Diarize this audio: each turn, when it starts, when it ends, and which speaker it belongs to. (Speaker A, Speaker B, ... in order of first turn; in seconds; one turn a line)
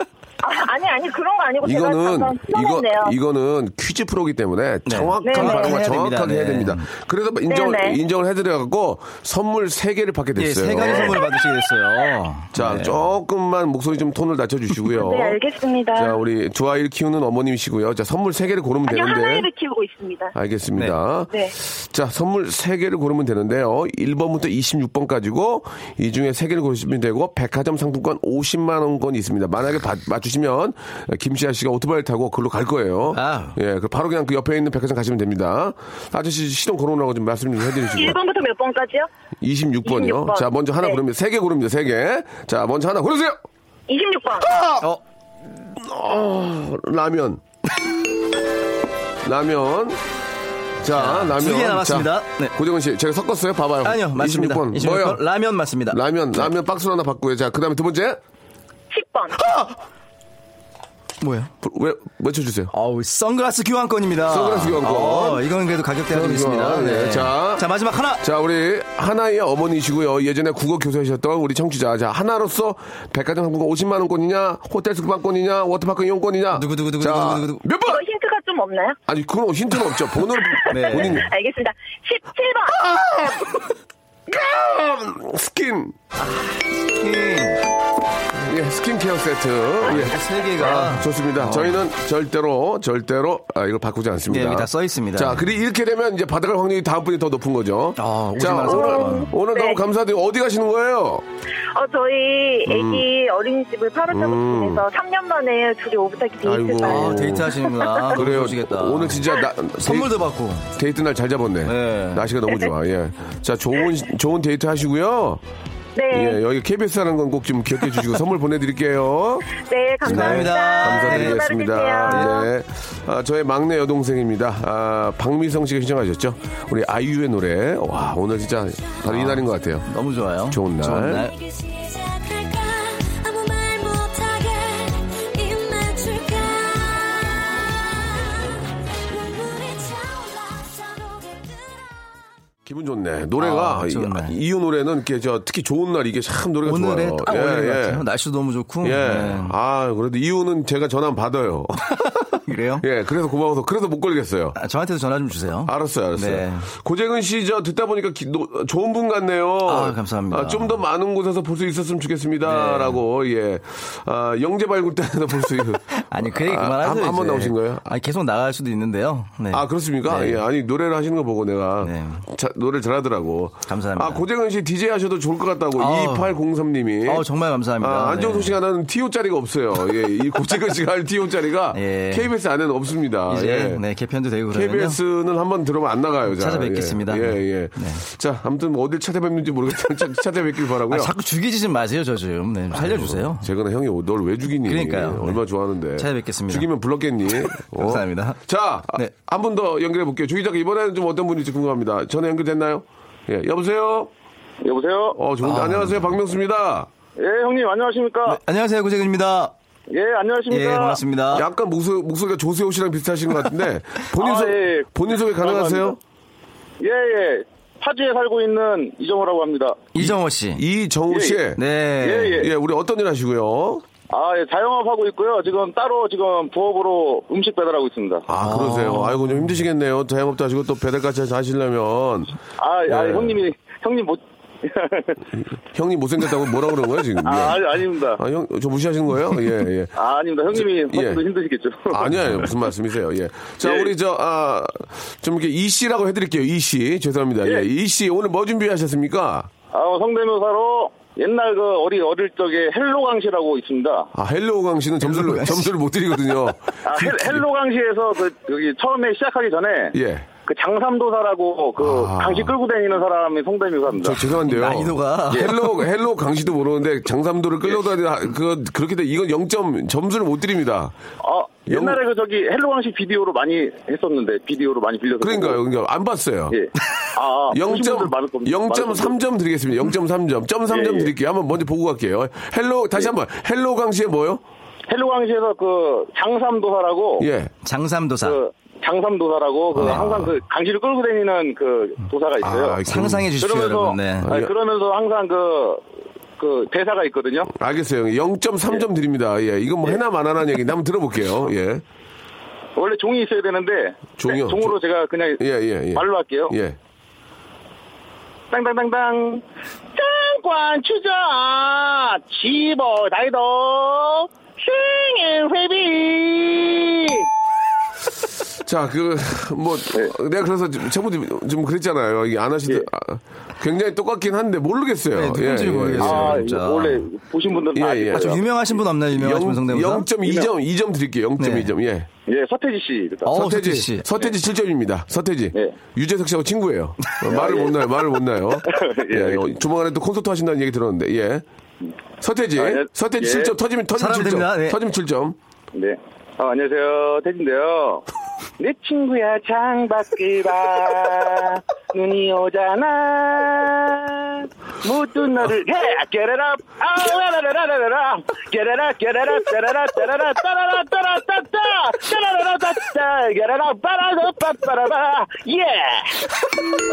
Speaker A: 0.4-3.1
Speaker B: 1.6-11.2
Speaker C: 4.9-6.9
Speaker A: 5.2-5.8
Speaker A: 7.5-8.0
Speaker C: 10.4-13.0
Speaker B: 12.5-15.4
Speaker A: 15.0-16.2
Speaker B: 15.9-19.5
Speaker A: 18.9-20.4
Speaker B: 20.4-38.2
Speaker C: 33.1-33.6
Speaker A: 38.0-39.1
Speaker B: 39.4-43.4
Speaker A: 39.9-41.0
Speaker A: 43.9-44.5
Speaker B: 44.4-44.9
Speaker B: 45.6-47.4
Speaker B: 49.2-50.0
Speaker B: 50.8-55.2
Speaker C: 50.9-52.5
Speaker C: 53.8-56.5
Speaker B: 55.9-58.2
Speaker A: 58.9-59.4
Speaker B: 59.4-59.7
Speaker C: 61.2-61.5
Speaker B: 61.6-62.7
Speaker C: 62.7-68.2
Speaker B: 64.2-65.4
Speaker B: 66.1-67.7
Speaker B: 68.2-78.0
Speaker C: 76.5-77.6
Speaker A: 77.8-79.0
Speaker B: 79.1-81.3
Speaker A: 80.4-82.8
Speaker C: 80.7-81.2
Speaker B: 82.8-83.5
Speaker B: 84.3-86.0
Speaker C: 86.2-87.6
Speaker B: 88.3-101.2
Speaker C: 89.8-91.8
Speaker C: 94.3-95.5
Speaker C: 98.0-99.3
Speaker A: 98.6-99.8
Speaker A: 101.7-108.2
Speaker B: 102.7-103.0
Speaker B: 104.1-104.8
Speaker B: 106.4-107.5
Speaker C: 106.8-109.3
Speaker B: 108.1-110.2
Speaker C: 109.8-110.7
Speaker B: 110.8-115.4
Speaker C: 111.7-112.3
Speaker A: 116.0-116.4
Speaker B: 116.1-119.5
Speaker A: 119.6-122.5
Speaker C: 120.0-121.4
Speaker B: 120.0-129.9
Speaker C: 122.1-122.3
Speaker C: 129.1-131.3
Speaker B: 130.5-131.3
Speaker D: 131.2-141.9
Speaker B: 142.7-148.0
Speaker C: 143.4-144.4
Speaker C: 146.7-149.6
Speaker B: 148.8-151.9
Speaker C: 152.0-152.8
Speaker B: 152.8-154.6
Speaker C: 154.6-156.7
Speaker B: 155.7-167.9
Speaker C: 159.7-160.8
Speaker C: 162.4-163.0
Speaker C: 165.9-170.4
Speaker B: 169.5-177.3
Speaker C: 171.8-172.3
Speaker C: 173.7-174.2
Speaker C: 175.8-176.3
Speaker C: 177.1-178.6
Speaker B: 177.8-183.8
Speaker C: 181.7-182.3
Speaker C: 183.3-185.0
Speaker B: 184.5-191.1
Speaker C: 186.3-188.1
Speaker C: 190.9-193.5
Speaker B: 192.7-204.1
Speaker C: 194.7-195.4
Speaker C: 196.0-196.7
Speaker C: 197.6-198.4
Speaker E: 204.6-205.2
Speaker B: 205.2-206.9
Speaker C: 205.4-206.1
Speaker E: 207.2-208.4
Speaker C: 208.3-209.5
Speaker E: 209.9-211.0
Speaker C: 210.5-211.5
Speaker B: 211.3-216.0
Speaker E: 214.2-216.0
Speaker E: 216.8-219.9
Speaker C: 219.9-220.6
Speaker B: 220.0-221.6
Speaker E: 221.1-221.4
Speaker C: 221.6-222.5
Speaker E: 222.0-222.5
Speaker B: 222.3-223.9
Speaker E: 224.1-228.3
Speaker B: 228.3-233.4
Speaker C: 228.4-229.5
Speaker E: 232.6-235.2
Speaker B: 235.7-239.9
Speaker E: 237.2-238.2
Speaker E: 239.9-242.1
Speaker B: 240.5-241.2
Speaker B: 241.9-249.5
Speaker E: 243.6-243.9
Speaker E: 249.7-254.1
Speaker B: 254.1-257.5
Speaker C: 255.0-255.7
Speaker E: 256.9-264.4
Speaker B: 259.9-260.3
Speaker B: 261.8-262.5
Speaker B: 264.0-271.0
Speaker C: 264.5-265.8
Speaker E: 271.2-275.6
Speaker B: 271.7-272.0
Speaker B: 275.2-276.6
Speaker E: 276.5-279.2
Speaker B: 277.5-284.4
Speaker E: 280.7-281.1
Speaker E: 284.9-287.3
Speaker B: 287.2-287.5
Speaker C: 287.6-288.4
Speaker E: 288.2-292.8
Speaker B: 289.8-290.3
Speaker C: 289.8-290.1
Speaker B: 292.4-293.3
Speaker C: 292.8-294.3
Speaker E: 293.4-295.8
Speaker B: 294.2-294.5
Speaker E: 296.4-297.5
Speaker B: 297.5-301.8
Speaker E: 302.8-305.4
Speaker B: 304.2-304.8
Speaker B: 305.4-306.8
Speaker E: 305.9-306.6
Speaker E: 308.5-309.4
Speaker E: 309.9-317.3
Speaker B: 318.6-326.4
Speaker C: 325.1-327.1
Speaker E: 326.0-328.4
Speaker B: 327.8-328.4
Speaker C: 328.1-330.1
Speaker B: 329.1-332.1
Speaker E: 330.2-330.5
Speaker C: 331.4-331.7
Speaker E: 332.3-333.3
Speaker C: 333.3-334.1
Speaker B: 333.3-341.4
Speaker E: 337.3-337.9
Speaker E: 338.7-339.5
Speaker B: 342.2-345.4
Speaker E: 342.6-343.5
Speaker C: 343.9-344.8
Speaker E: 345.7-348.1
Speaker E: 348.6-366.3